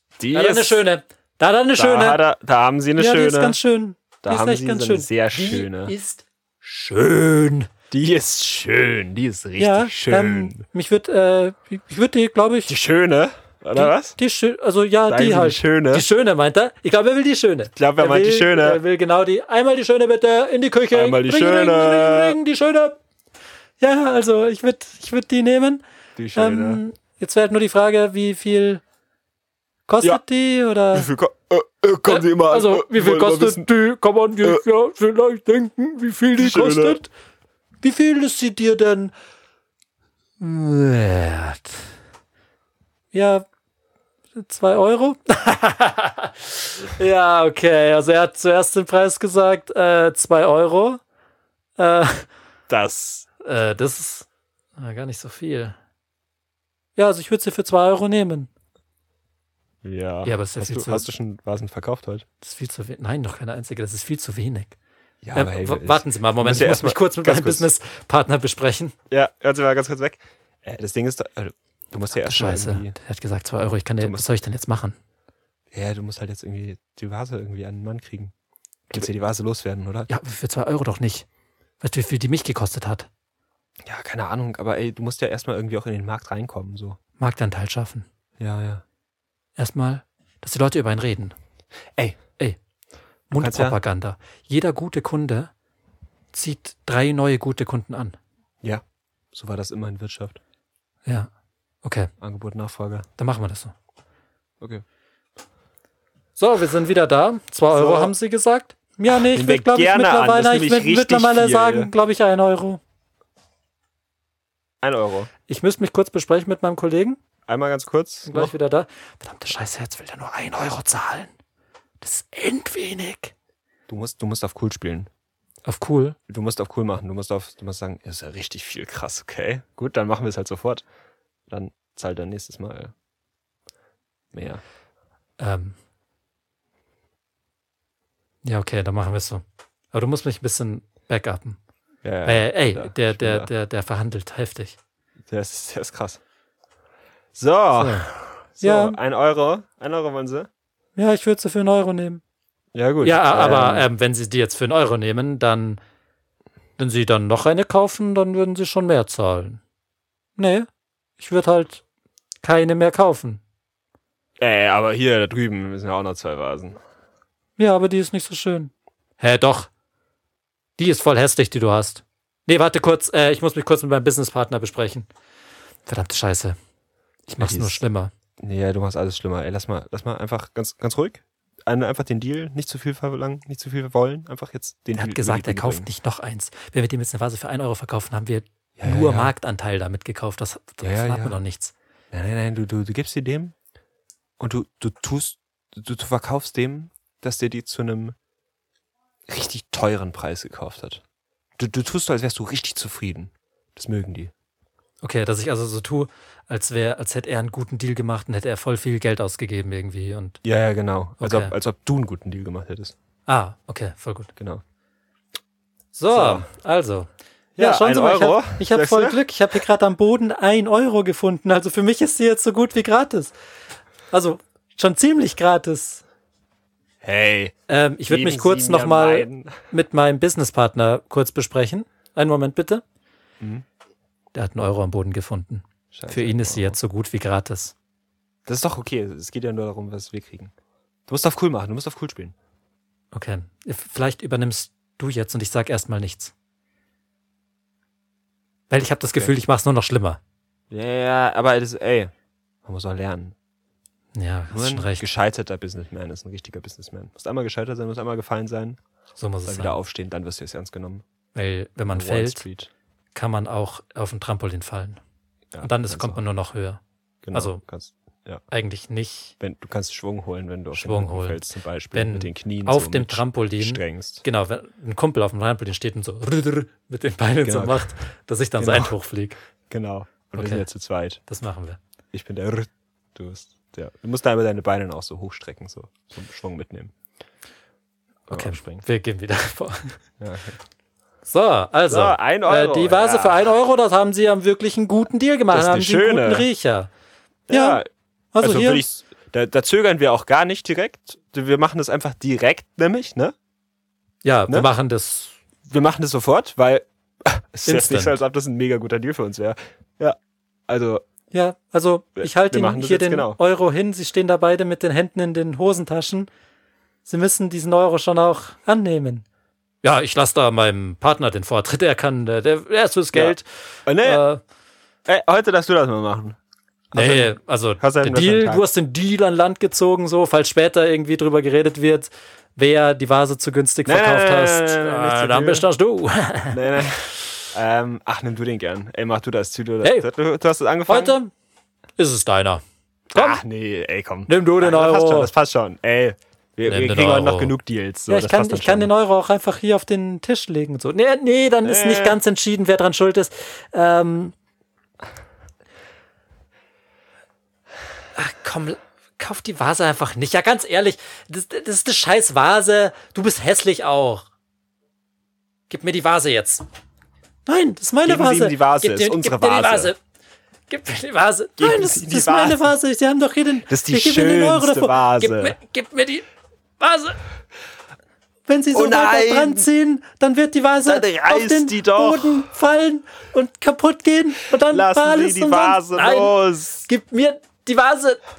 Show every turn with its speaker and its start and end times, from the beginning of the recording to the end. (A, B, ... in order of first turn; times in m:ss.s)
0:00.2-0:00.9 A
0:00.3-0:02.2 B
0:01.8-0:03.6 A
0:03.0-0:07.7 B
0:04.2-0:05.9 A
0:07.9-0:10.6 A
0:09.6-0:12.8 B
0:12.7-0:14.2 A
0:13.7-0:23.0 B
0:15.1-0:16.0 A
0:17.7-0:18.8 A
0:20.9-0:22.4 A
0:23.8-0:25.8 B
0:26.2-0:26.8 A
0:26.3-0:28.8 B
0:29.9-0:31.1 B
0:30.9-0:33.7 A
0:32.0-0:37.1 B
0:36.4-0:37.0 A
0:37.8-0:39.1 B
0:40.4-0:41.8 B
0:43.1-0:43.5 B
0:44.3-0:51.0 B
0:51.8-0:52.3 B
0:52.7-0:53.3 A
0:53.4-0:55.8 B
0:57.0-0:58.5 B
0:59.8-1:02.2 A
1:00.2-1:01.1 B
1:02.4-1:04.8 B
1:05.2-1:07.7 A
1:05.3-1:08.9 B
1:09.1-1:13.0 A
1:12.1-1:15.0 B
1:14.0-1:14.3 A
1:15.7-1:18.3 A
1:18.9-1:20.1 A
1:20.1-1:21.2 B
1:21.8-1:23.1 B
1:23.8-1:27.0 A
1:27.2-1:28.0 B
1:28.4-1:28.8 A
1:29.6-1:31.3 B
1:33.3-1:35.5 B
1:33.3-1:33.8 A
1:36.3-1:38.2 B
1:38.6-1:40.4 A
1:41.0-1:41.3 B
1:41.8-1:42.1 B
1:42.2-1:43.0 A
1:43.2-1:43.7 B
1:46.4-1:52.8 B
1:47.7-1:48.1 A
1:49.1-1:51.9 A
1:54.8-1:55.3 A
1:55.5-1:57.2 B
1:57.5-1:58.5 A
1:58.2-2:01.3 B
2:02.0-2:03.3 B
2:03.9-2:05.1 A
2:05.6-2:06.2 B
2:06.3-2:10.8 A
2:11.5-2:12.9 A
2:14.3-2:14.6 A
2:15.4-2:15.8 B
2:18.4-2:21.6 B
2:22.0-2:23.5 A
2:22.2-2:24.8 B
2:25.3-2:26.2 A
2:27.3-2:30.5 A
2:27.8-2:29.0 B
2:31.0-2:32.2 B
2:32.7-2:33.9 A
2:33.0-2:35.8 B
2:36.8-2:39.6 B
2:40.4-2:41.8 B
2:42.4-2:43.4 B
2:44.4-2:46.8 A
2:47.6-2:49.7 B
2:50.8-2:55.1 B
2:55.8-2:56.6 B
2:57.3-2:58.1 B
2:57.4-2:57.8 A
2:58.4-3:05.9 A
3:04.9-3:11.7 B
3:08.8-3:09.3 A
3:10.8-3:11.4 A
3:12.1-3:13.5 A
3:14.4-3:18.2 A
3:19.3-3:21.0 A
3:21.6-3:24.3 A
3:25.0-3:30.4 B
3:30.4-3:32.9 A
3:31.2-3:31.5 B
3:33.2-3:34.3 B
3:34.4-3:34.6 A
3:35.9-3:43.3 B
3:36.1-3:36.5 A
3:37.6-3:39.6 A
3:44.1-3:46.0 B
3:47.0-3:47.5 A
3:47.7-3:52.8 B
3:48.1-3:49.6 A
3:54.3-3:57.8 B
3:55.9-3:56.8 A
3:58.4-4:00.5 A
4:01.1-4:02.3 A
4:03.1-4:06.3 B
4:08.7-4:10.2 B
4:10.7-4:12.1 A
4:12.6-4:13.3 A
4:14.1-4:15.1 B
4:14.5-4:18.8 A
4:19.2-4:19.8 B
4:19.4-4:21.0 A
4:21.3-4:22.4 B
4:21.9-4:22.7 A
4:23.1-4:25.0 B
4:25.5-4:26.2 A
4:25.6-4:26.8 B
4:27.2-4:28.4 A
4:27.3-4:27.6 B
4:28.5-4:29.3 B
4:29.4-4:34.2 A
4:30.7-4:39.4 B
4:37.4-4:37.9 A
4:38.6-4:38.9 A
4:39.7-4:41.2 A
4:40.3-4:40.6 B
4:41.2-4:41.8 B
4:42.1-4:46.9 A
4:48.3-4:50.0 B
4:48.3-4:48.6 A
4:50.2-4:50.6 A
4:51.2-4:56.9 B
4:51.9-4:53.5 A
4:55.5-4:56.5 A
4:57.5-4:57.9 A
4:57.5-4:57.8 B
4:58.3-4:58.8 B
4:58.4-5:03.3 A
5:04.2-5:05.4 B
5:05.7-5:10.2 A
5:07.6-5:08.2 B
5:10.7-5:11.0 A
5:11.3-5:16.3 B
5:12.2-5:13.4 A
5:17.0-5:19.2 B
5:19.8-5:24.4 B
5:23.1-5:24.2 A
5:25.1-5:26.4 A
5:26.9-5:28.7 A
5:26.9-5:36.6 B
5:33.8-5:35.7 A
5:36.5-5:41.2 A
5:39.8-5:40.1 B
5:40.8-5:41.3 B
5:42.0-5:42.6 B
5:43.1-5:48.9 A
5:43.1-5:43.4 B
5:44.3-5:45.3 B
5:46.6-5:54.3 B
5:51.6-5:52.2 A
5:58.2-6:04.2 B
6:05.7-6:06.6 B
6:07.4-6:10.0 B
6:08.0-6:09.9 A
6:10.7-6:16.2 B
6:11.6-6:12.7 A
6:13.7-6:15.6 A
6:16.8-6:17.2 B
6:18.5-6:28.2 B
6:18.7-6:19.7 A
6:20.8-6:22.5 A
6:24.7-6:26.9 A